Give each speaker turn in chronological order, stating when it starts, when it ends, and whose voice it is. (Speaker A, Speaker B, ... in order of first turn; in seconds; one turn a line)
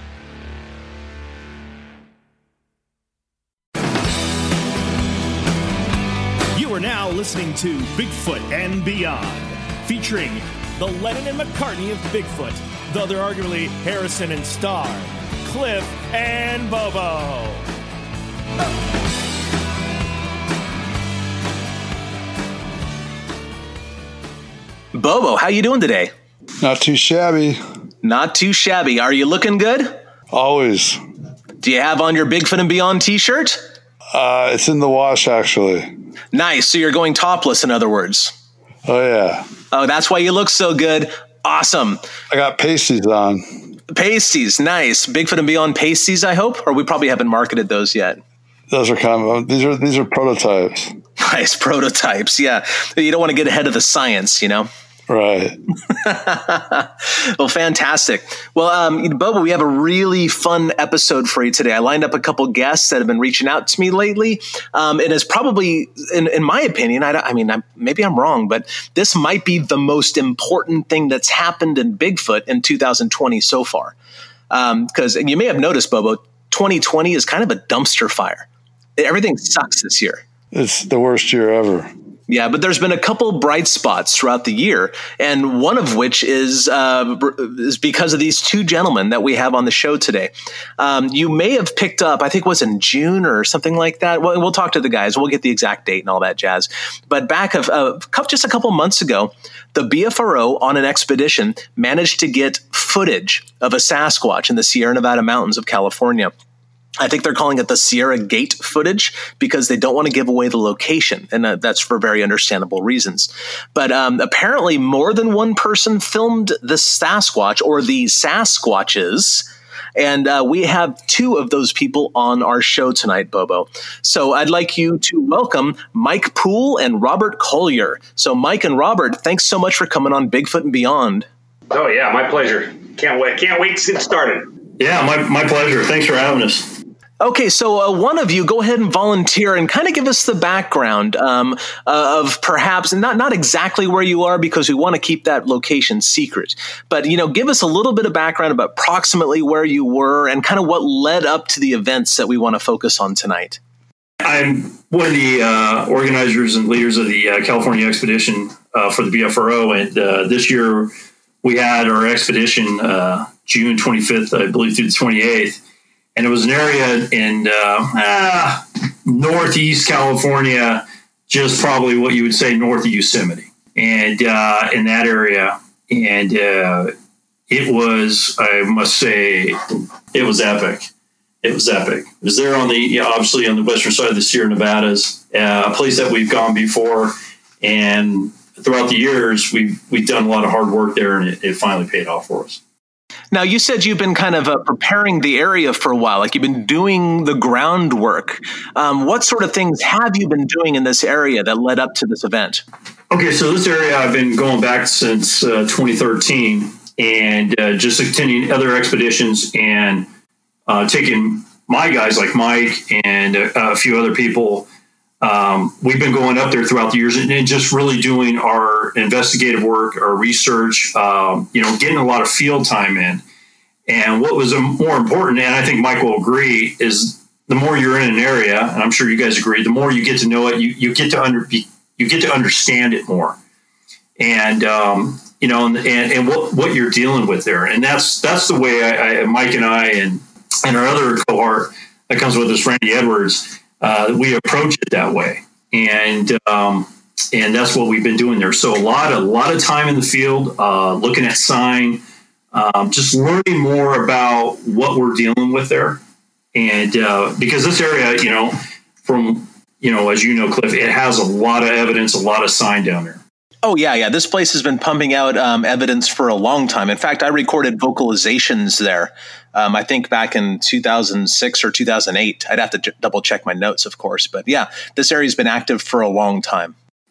Speaker A: 6.5-17.6
Speaker B: 24.9-26.1
Speaker C: 26.6-27.6
Speaker B: 28.0-30.0
Speaker C: 30.3-31.0
Speaker B: 31.6-33.6
Speaker C: 34.1-35.9
Speaker B: 36.3-38.3
Speaker C: 38.9-39.5
Speaker B: 39.7-42.0
Speaker C: 42.3-43.4
Speaker B: 43.9-48.2
Speaker C: 48.7-50.9
Speaker B: 51.2-54.7
Speaker C: 55.1-55.6
Speaker B: 55.9-74.0
Speaker B: 74.5-80.2
Speaker C: 80.5-81.9
Speaker B: 82.3-106.3
Speaker B: 107.0-131.3
Speaker D: 131.7-134.5
Speaker E: 134.8-136.8
Speaker B: 137.2-153.6
Speaker E: 154.2-160.9
Speaker E: 161.4-165.6
Speaker E: 166.2-176.9
Speaker E: 177.5-179.6
Speaker E: 180.1-180.9
Speaker E: 181.4-192.6
Speaker B: 193.3-202.6
Speaker E: 203.1-210.1
Speaker E: 210.7-214.7
Speaker E: 215.2-223.2
Speaker E: 223.9-233.4
Speaker E: 234.2-252.0
Speaker E: 252.5-256.0
Speaker E: 256.5-263.2
Speaker B: 263.6-276.7